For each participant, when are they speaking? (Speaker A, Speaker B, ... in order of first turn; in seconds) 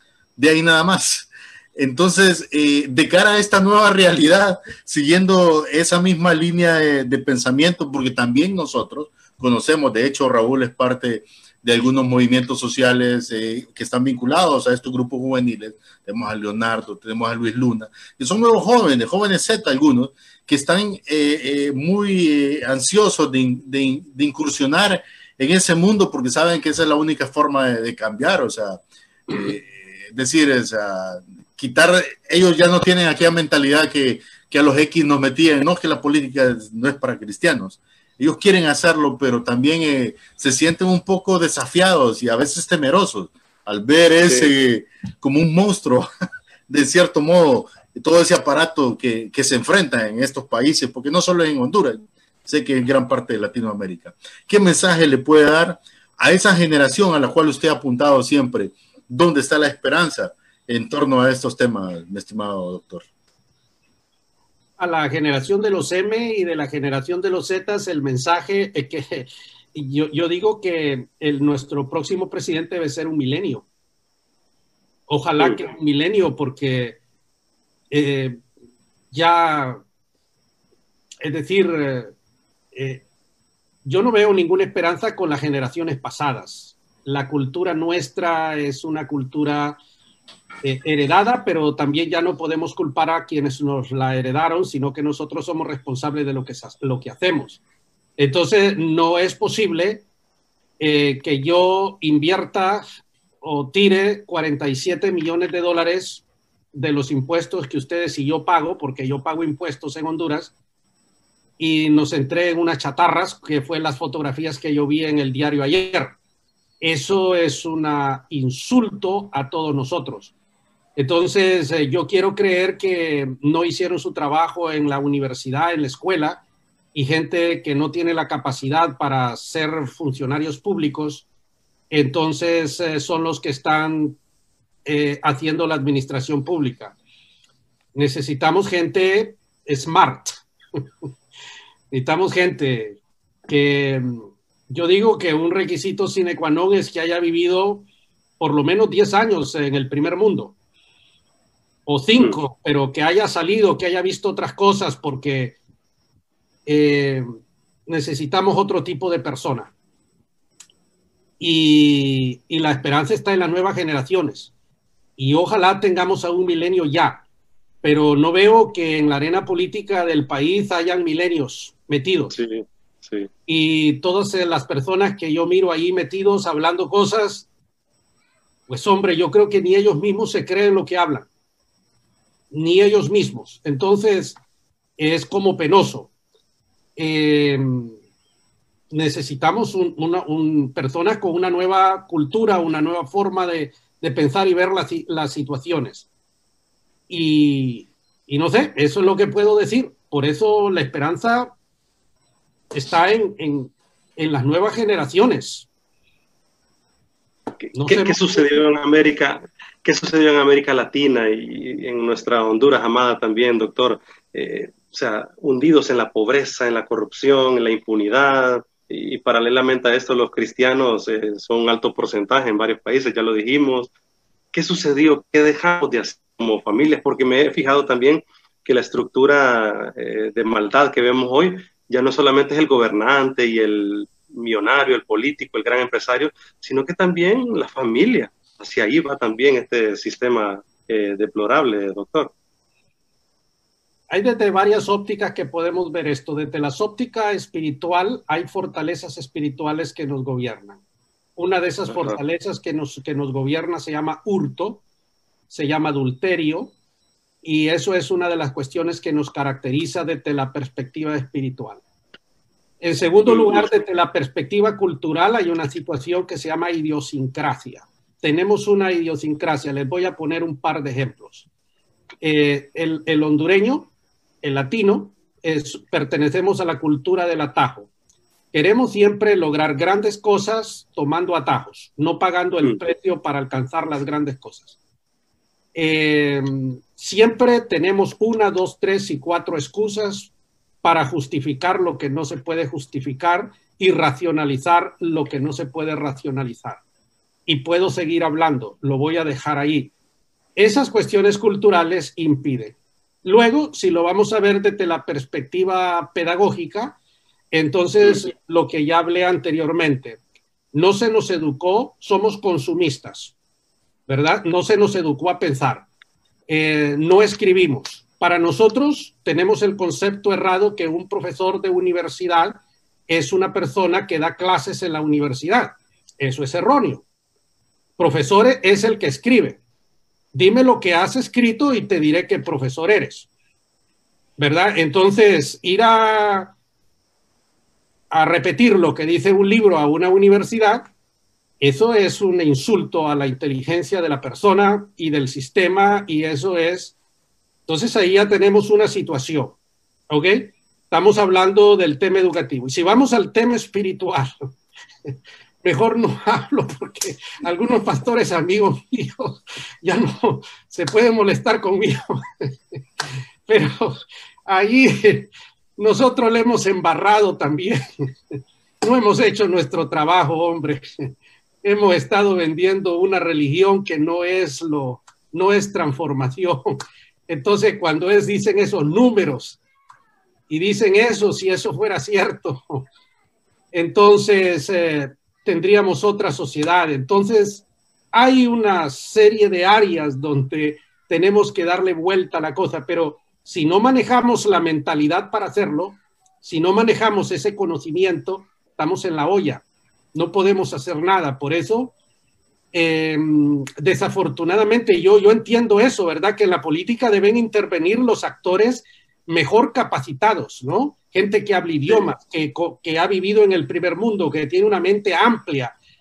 Speaker A: 0.4-46.1, 46.7-63.0
Speaker B: 44.2-44.5, 75.4-75.7, 172.3-173.3, 207.6-223.9, 224.5-242.3, 251.9-252.2, 263.2-263.7
Speaker C: 64.8-73.7, 75.1-77.0, 77.9-78.4, 79.1-79.8, 81.2-82.1, 82.7-83.0, 83.8-89.8, 90.6-97.6, 98.2-100.0, 100.8-102.8, 103.4-110.5, 111.6-116.2, 116.8-120.3, 121.0-126.4, 126.9-131.2, 131.9-134.2, 134.8-136.9, 137.9-140.4, 141.9-147.8, 148.4-150.5, 151.8-155.6, 156.7-157.3, 157.9-159.7, 161.4-164.5, 165.2-167.2, 167.8-172.3, 173.5-177.5, 178.7-181.3, 182.5-184.4, 185.0-186.1, 187.0-187.9, 188.9-196.1, 197.1-201.5, 202.7-205.7, 207.7-208.4, 244.1-250.8, 251.4-254.8, 255.5-256.7, 257.4-261.8, 262.8-271.5, 272.2-273.9, 274.4-277.9, 278.5-284.8, 285.7-290.3, 290.8-296.8, 297.5-299.9, 300.6-307.0, 307.5-310.2, 310.7-313.3, 314.1-315.9, 316.5-327.0, 328.0-329.6, 330.3-333.3, 334.4-336.5, 338.1-340.9, 341.6-346.9, 347.7-349.6, 350.1-354.5, 355.6-362.5, 363.5-371.1, 371.6-379.6, 380.5-382.9, 383.7-401.9, 402.7-415.7